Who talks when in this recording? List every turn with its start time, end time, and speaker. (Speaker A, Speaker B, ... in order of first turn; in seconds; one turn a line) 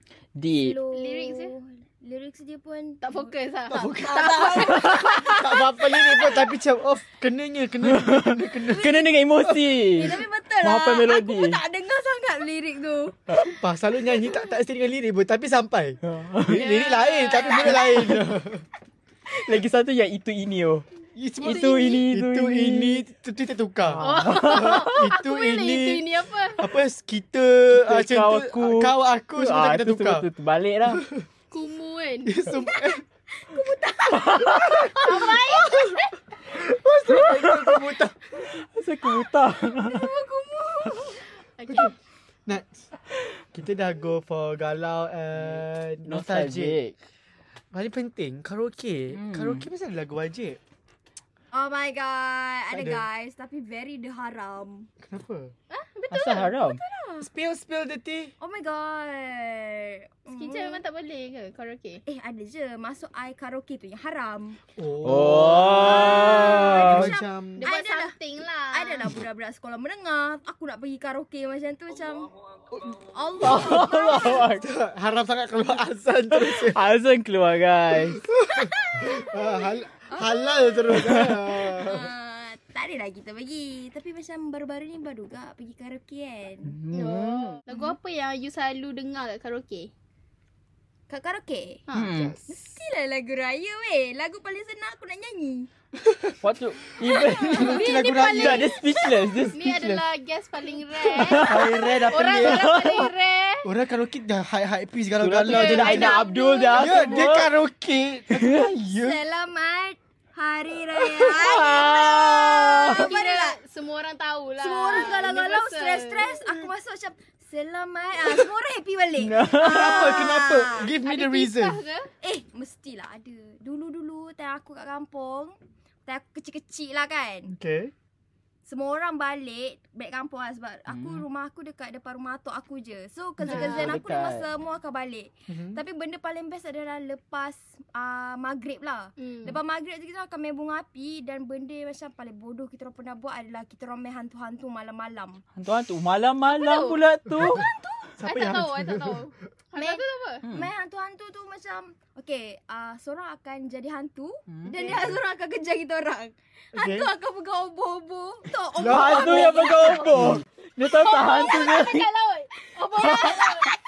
Speaker A: 0.3-0.8
Speaker B: 0.5-3.3
Speaker C: 0.9-1.5
Speaker C: 3.0-5.5
Speaker D: 3.7-9.8
Speaker B: 4.0-5.4
Speaker A: 7.9-11.6
Speaker B: 8.7-9.1
Speaker B: 9.9-13.2
Speaker D: 13.4-18.6
Speaker A: 16.1-16.6
Speaker C: 16.5-17.9
Speaker A: 19.4-20.9
Speaker D: 21.1-26.1
Speaker A: 21.4-23.0
Speaker C: 21.4-21.9
Speaker A: 23.9-24.8
Speaker C: 24.0-26.7
Speaker D: 26.6-30.3
Speaker A: 27.8-31.0
Speaker D: 30.9-31.2
Speaker C: 31.5-32.3
Speaker D: 32.2-33.0
Speaker B: 32.5-32.8
Speaker B: 33.4-34.5
Speaker A: 34.2-34.7
Speaker D: 34.5-36.0
Speaker C: 35.0-36.0
Speaker D: 36.5-38.2
Speaker A: 37.1-37.8
Speaker A: 38.5-40.1
Speaker B: 39.8-41.2
Speaker C: 41.6-42.0
Speaker D: 41.7-41.9
Speaker D: 42.5-42.9
Speaker D: 43.5-46.8
Speaker A: 45.4-47.0
Speaker D: 47.7-50.6
Speaker A: 49.1-49.7
Speaker B: 51.5-54.9
Speaker D: 52.7-53.0
Speaker D: 55.0-55.5
Speaker C: 55.7-56.7
Speaker A: 56.1-56.8
Speaker B: 56.7-57.3
Speaker D: 57.2-58.3
Speaker B: 58.4-60.8
Speaker C: 60.3-62.0
Speaker B: 62.1-64.6
Speaker D: 64.8-67.7
Speaker A: 65.0-67.1
Speaker B: 65.7-68.2
Speaker C: 67.6-69.1
Speaker B: 68.7-72.3
Speaker B: 73.0-74.6
Speaker A: 73.4-74.7
Speaker D: 74.6-76.8
Speaker A: 76.3-78.2
Speaker D: 78.2-82.1
Speaker B: 78.5-80.9
Speaker A: 80.9-81.4
Speaker B: 81.8-86.8
Speaker A: 86.7-87.6
Speaker C: 86.9-89.9
Speaker B: 87.7-88.0
Speaker B: 91.1-91.8
Speaker C: 91.9-92.3
Speaker A: 91.9-92.4
Speaker B: 92.5-95.7
Speaker D: 96.0-96.4
Speaker A: 96.4-100.0
Speaker B: 97.1-97.8
Speaker D: 97.5-98.8
Speaker C: 97.7-98.7
Speaker C: 99.5-103.7
Speaker A: 101.1-103.1
Speaker D: 101.4-102.9
Speaker D: 103.6-109.2
Speaker A: 105.2-107.5
Speaker C: 105.5-106.9
Speaker B: 105.9-107.1
Speaker B: 108.9-113.6
Speaker A: 111.0-113.0
Speaker C: 112.9-116.3
Speaker B: 114.6-120.9
Speaker A: 119.2-120.2
Speaker D: 119.6-121.8
Speaker C: 121.0-122.1
Speaker B: 122.2-125.5
Speaker B: 126.1-127.5
Speaker D: 127.5-127.9
Speaker B: 128.7-145.4
Speaker A: 130.9-131.2
Speaker A: 133.4-134.4
Speaker C: 133.5-133.9
Speaker D: 135.5-135.8
Speaker C: 139.2-139.6
Speaker A: 145.6-147.7
Speaker C: 146.5-147.0
Speaker B: 147.4-148.2
Speaker D: 148.2-149.3
Speaker C: 148.2-150.4
Speaker B: 149.8-160.1
Speaker A: 150.4-150.7
Speaker A: 154.5-155.1
Speaker D: 156.7-157.1
Speaker D: 158.8-160.4
Speaker A: 158.8-162.1
Speaker C: 159.6-160.1
Speaker C: 160.9-163.7
Speaker A: 163.0-163.5